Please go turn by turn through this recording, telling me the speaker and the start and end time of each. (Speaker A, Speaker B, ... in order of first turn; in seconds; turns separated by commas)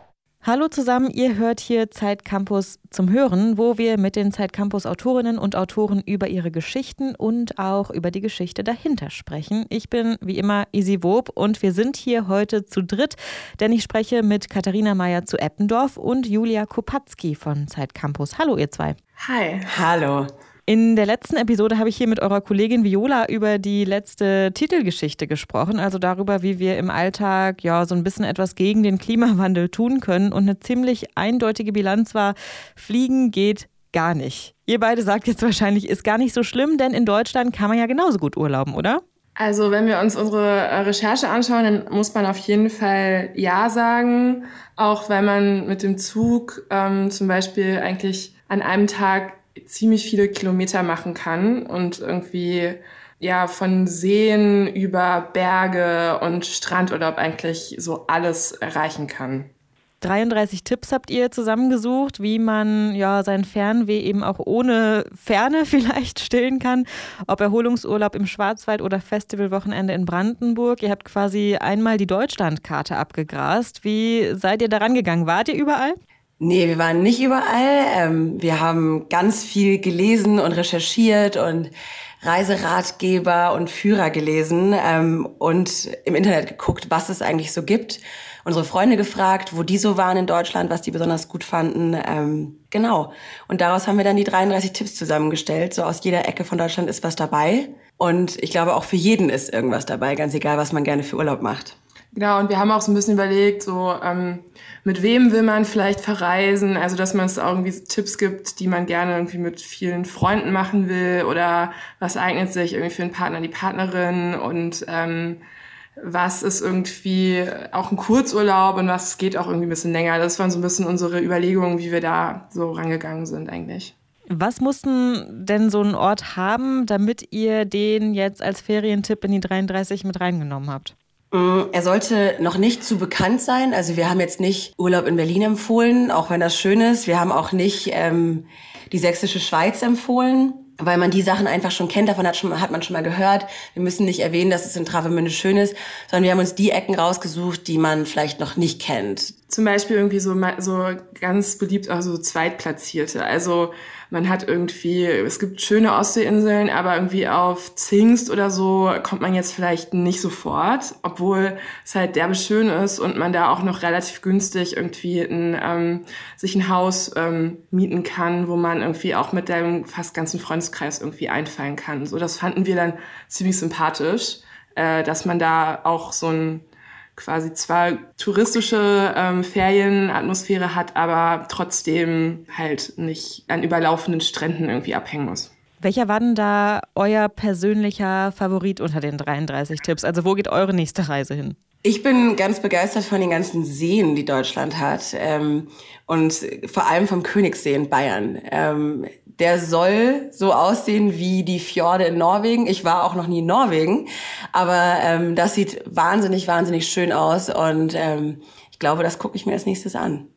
Speaker A: 0.4-19.0, Speaker B: 19.2-19.7, Speaker C: 19.7-20.3, Speaker A: 20.7-39.0, Speaker B: 39.4-59.5, Speaker A: 60.0-76.0, Speaker C: 76.4-81.7, Speaker C: 82.2-101.8, Speaker B: 102.1-115.4, Speaker B: 116.0-123.9, Speaker A: 124.3-130.9, Speaker C: 131.3-149.3, Speaker B: 149.5-176.7, Speaker B: 177.2-185.5, Speaker A: 185.8-191.6, Speaker C: 191.8-210.3